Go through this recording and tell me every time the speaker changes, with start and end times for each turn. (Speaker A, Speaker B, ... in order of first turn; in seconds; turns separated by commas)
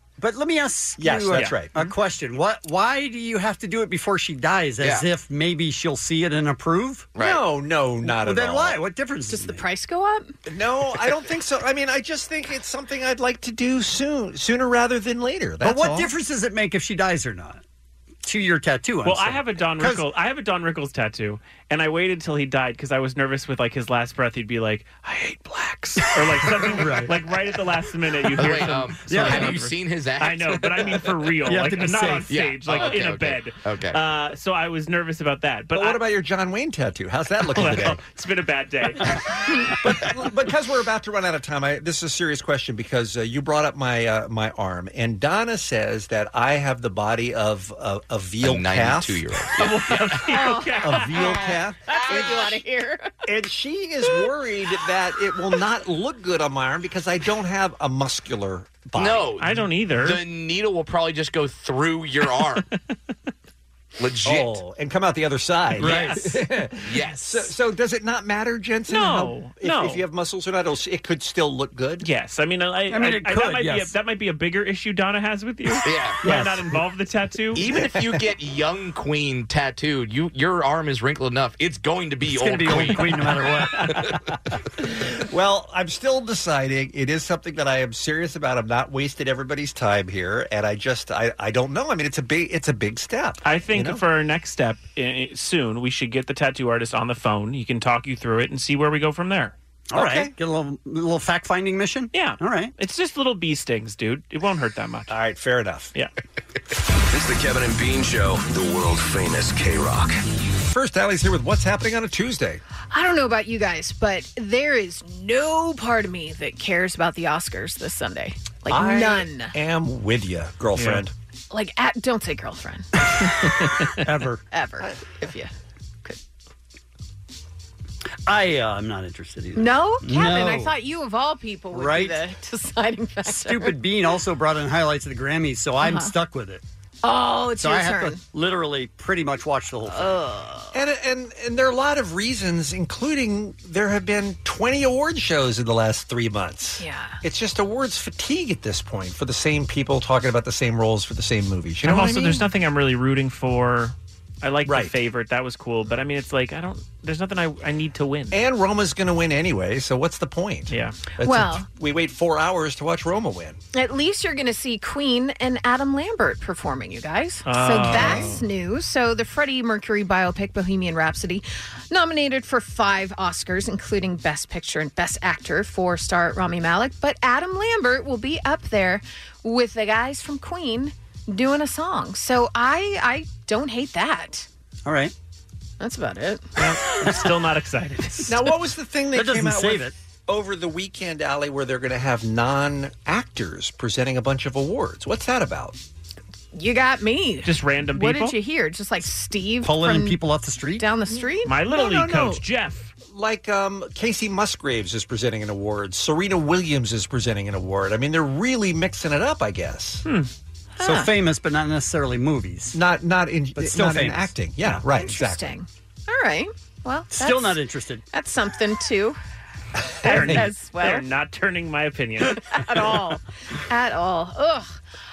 Speaker A: 0.2-7.1, Speaker B: 1.0-1.9, Speaker C: 7.1-7.4, Speaker B: 7.2-8.8, Speaker A: 8.0-9.6, Speaker D: 9.3-10.3, Speaker B: 10.4-16.1, Speaker A: 15.6-17.6, Speaker A: 18.2-20.0, Speaker E: 19.0-36.0, Speaker A: 26.4-27.1, Speaker C: 28.4-31.1, Speaker A: 28.9-29.7, Speaker A: 31.4-32.4, Speaker C: 32.3-34.0, Speaker B: 35.7-38.0, Speaker E: 37.5-39.0, Speaker B: 39.5-49.5, Speaker C: 48.4-50.1, Speaker E: 49.6-51.4, Speaker D: 50.3-53.1, Speaker B: 50.8-52.6, Speaker B: 53.3-59.3, Speaker C: 59.0-62.6, Speaker E: 59.4-60.2, Speaker C: 64.0-64.6, Speaker B: 64.2-72.1, Speaker A: 65.8-66.4, Speaker C: 66.8-67.5, Speaker E: 68.9-70.0, Speaker E: 72.0-77.6, Speaker A: 72.9-73.9, Speaker C: 75.8-76.2, Speaker B: 76.2-76.7, Speaker C: 77.5-83.2, Speaker B: 77.7-78.2, Speaker A: 82.2-83.9, Speaker B: 83.8-84.1, Speaker B: 84.8-94.0, Speaker E: 93.4-99.5, Speaker A: 99.9-102.7, Speaker B: 99.9-100.3, Speaker E: 102.1-105.1, Speaker B: 105.1-105.9, Speaker F: 107.1-110.2, Speaker B: 110.6-112.6, Speaker D: 112.9-119.5, Speaker B: 118.7-121.1, Speaker E: 120.7-121.0, Speaker D: 121.5-122.9, Speaker A: 124.0-124.4, Speaker D: 124.5-125.5, Speaker A: 128.3-130.7, Speaker D: 129.6-133.8, Speaker A: 131.7-132.2, Speaker A: 133.2-136.6, Speaker D: 135.8-136.1, Speaker D: 137.0-138.2, Speaker A: 137.6-140.1, Speaker D: 139.9-140.8, Speaker B: 140.7-152.4, Speaker D: 146.8-147.2, Speaker E: 151.8-158.4, Speaker B: 154.7-154.9, Speaker B: 158.3-163.6, Speaker E: 160.7-160.9, Speaker D: 161.2-161.7, Speaker D: 163.7-184.5, Speaker E: 167.4-168.4, Speaker B: 167.8-168.3, Speaker A: 184.8-185.1, Speaker D: 185.8-186.5, Speaker E: 186.6-188.4, Speaker B: 188.3-195.8, Speaker A: 189.1-189.9, Speaker D: 196.5-200.2, Speaker E: 197.4-198.3, Speaker A: 199.6-200.8, Speaker D: 200.8-201.5, Speaker E: 201.4-202.9, Speaker B: 201.7-202.4, Speaker B: 203.1-210.1, Speaker E: 210.1-210.3, Speaker D: 210.8-211.1, Speaker A: 210.8-212.7, Speaker B: 212.7-215.6, Speaker A: 213.6-214.3, Speaker D: 214.6-217.6, Speaker A: 217.1-218.0, Speaker D: 218.1-219.2, Speaker D: 220.0-221.0, Speaker B: 220.0-220.4, Speaker E: 220.0-222.6, Speaker D: 222.4-224.8